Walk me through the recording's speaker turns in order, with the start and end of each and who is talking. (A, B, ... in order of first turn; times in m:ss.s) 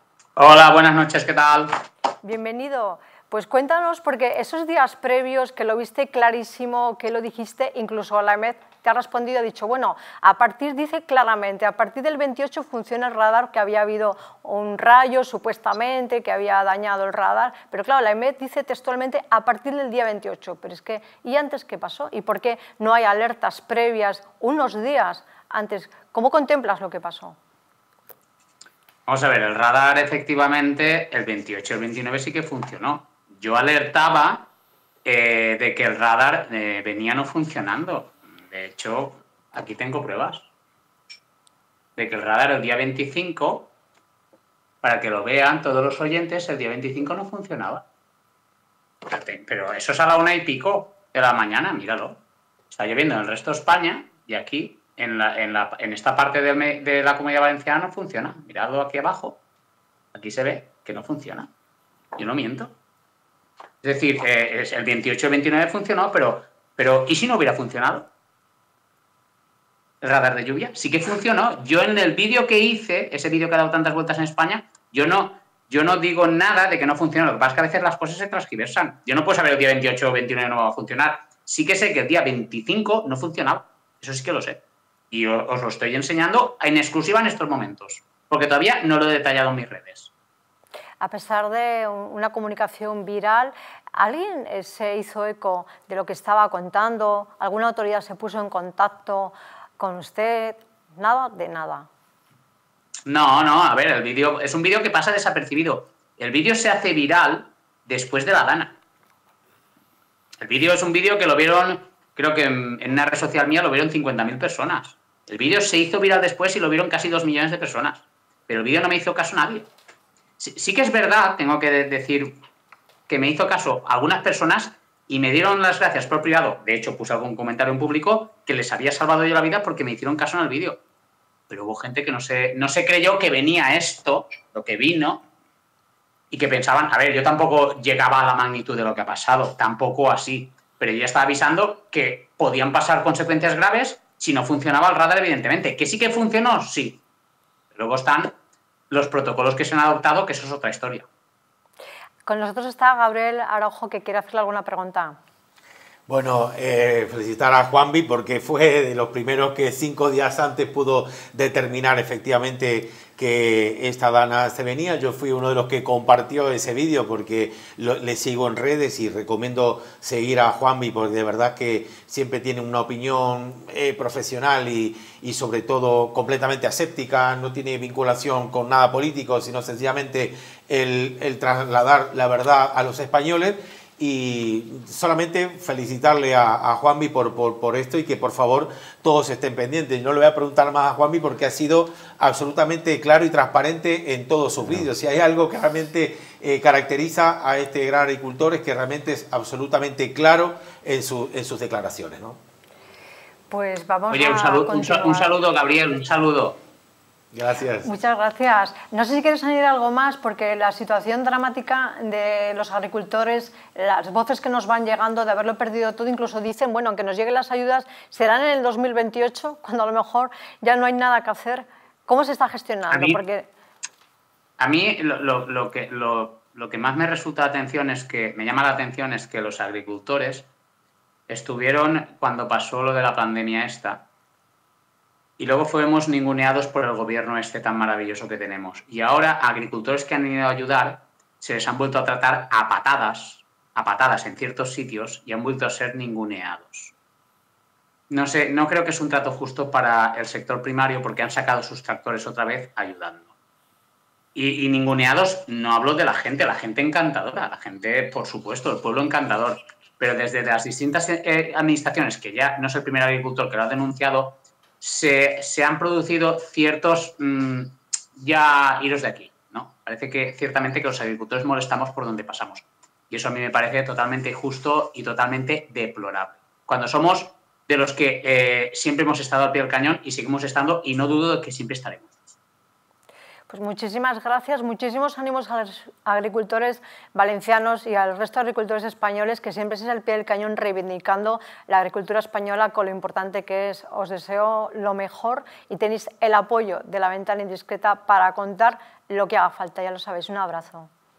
0:00.4-0:01.7 A
0:02.2-0:27.4 B
0:29.1-0:34.5 A
0:35.0-0:40.5 A
0:42.0-0:43.7 A
0:44.8-0:47.8 A
0:49.0-0:52.2 A
0:52.7-0:59.4 A
1:00.1-1:01.5 A
1:02.2-1:02.7 A
1:03.8-1:08.1 A
1:10.0-1:30.1 A
1:31.0-1:41.9 B
1:43.0-1:48.8 A
1:50.4-1:59.7 A
2:00.4-2:02.4 A
2:03.1-2:10.8 A
2:11.5-2:15.2 A
2:16.3-2:27.0 A
2:27.7-2:28.3 A
2:28.9-2:31.1 A
2:32.2-2:35.2 B
2:36.1-3:22.4 C
3:23.5-3:25.3 B
3:24.1-3:26.6 A
3:27.3-3:27.9 C
3:27.8-3:43.5 B
3:42.9-3:43.2 A
3:44.6-3:50.5 A
3:51.3-3:54.0 A
3:55.4-4:06.9 A
4:08.1-4:13.3 A
4:14.3-4:42.2 A
4:43.5-5:00.9 B